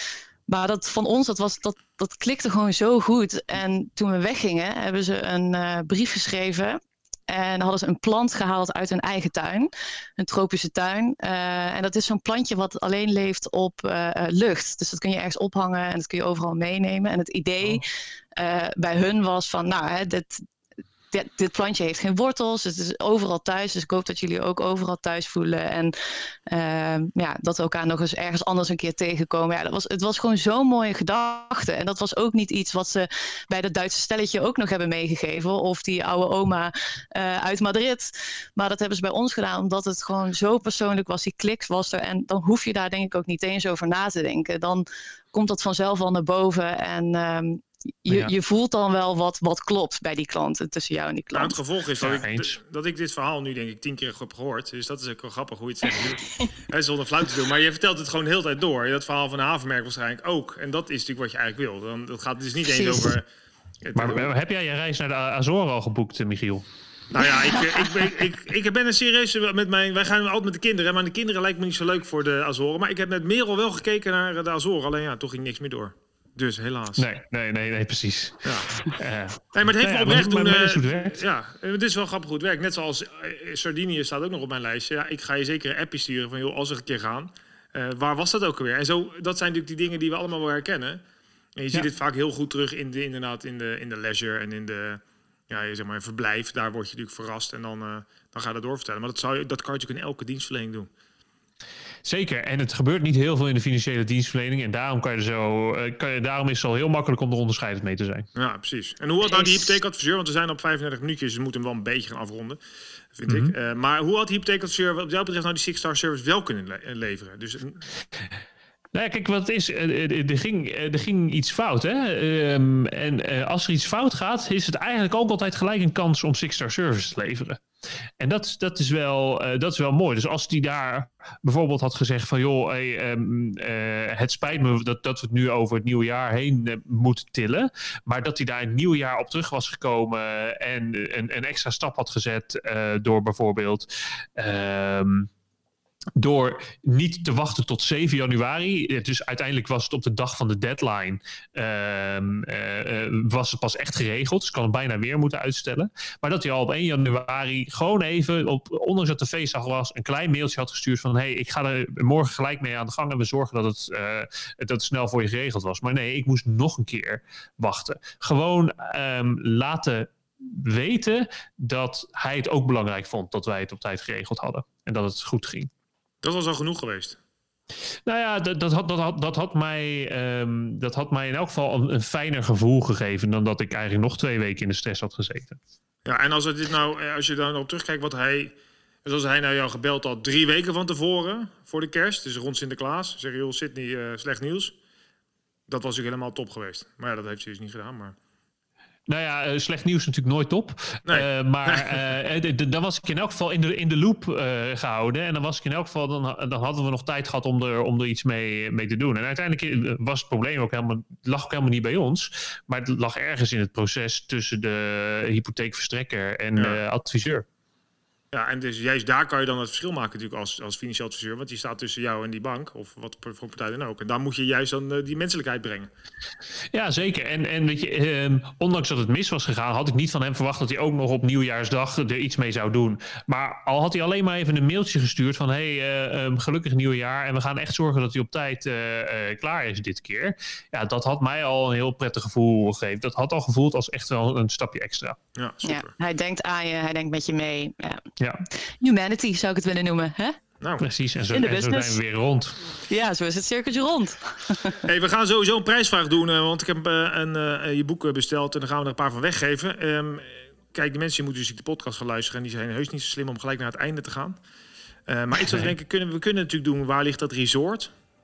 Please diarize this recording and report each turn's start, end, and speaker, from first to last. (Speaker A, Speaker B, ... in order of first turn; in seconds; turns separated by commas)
Speaker A: 0.5-20.4, Speaker A: 21.1-25.9, Speaker A: 26.5-51.6, Speaker B: 51.3-63.2, Speaker C: 52.0-52.5, Speaker A: 62.8-63.1, Speaker B: 63.8-64.3, Speaker C: 63.9-66.6, Speaker B: 67.1-77.0, Speaker C: 77.0-81.2, Speaker B: 78.4-78.7, Speaker B: 79.5-91.0, Speaker B: 91.6-100.9, Speaker C: 102.0-108.3, Speaker B: 108.3-112.6, Speaker B: 113.1-117.8, Speaker C: 113.3-113.5, Speaker C: 118.9-127.6, Speaker C: 128.2-145.3, Speaker C: 146.2-175.7, Speaker B: 176.2-177.2, Speaker C: 178.1-185.6, Speaker B: 186.1-194.7, Speaker B: 195.7-198.2, Speaker C: 199.1-217.4, Speaker B: 201.1-202.0, Speaker B: 218.3-225.9, Speaker C: 226.7-245.2, Speaker B: 245.3-245.9, Speaker A: 245.6-250.4, Speaker C: 248.2-248.4, Speaker B: 250.6-250.9, Speaker C: 250.8-252.7, Speaker A: 251.3-252.0, Speaker A: 252.9-254.8, Speaker B: 254.8-264.4, Speaker B: 265.1-267.9, Speaker C: 265.4-265.7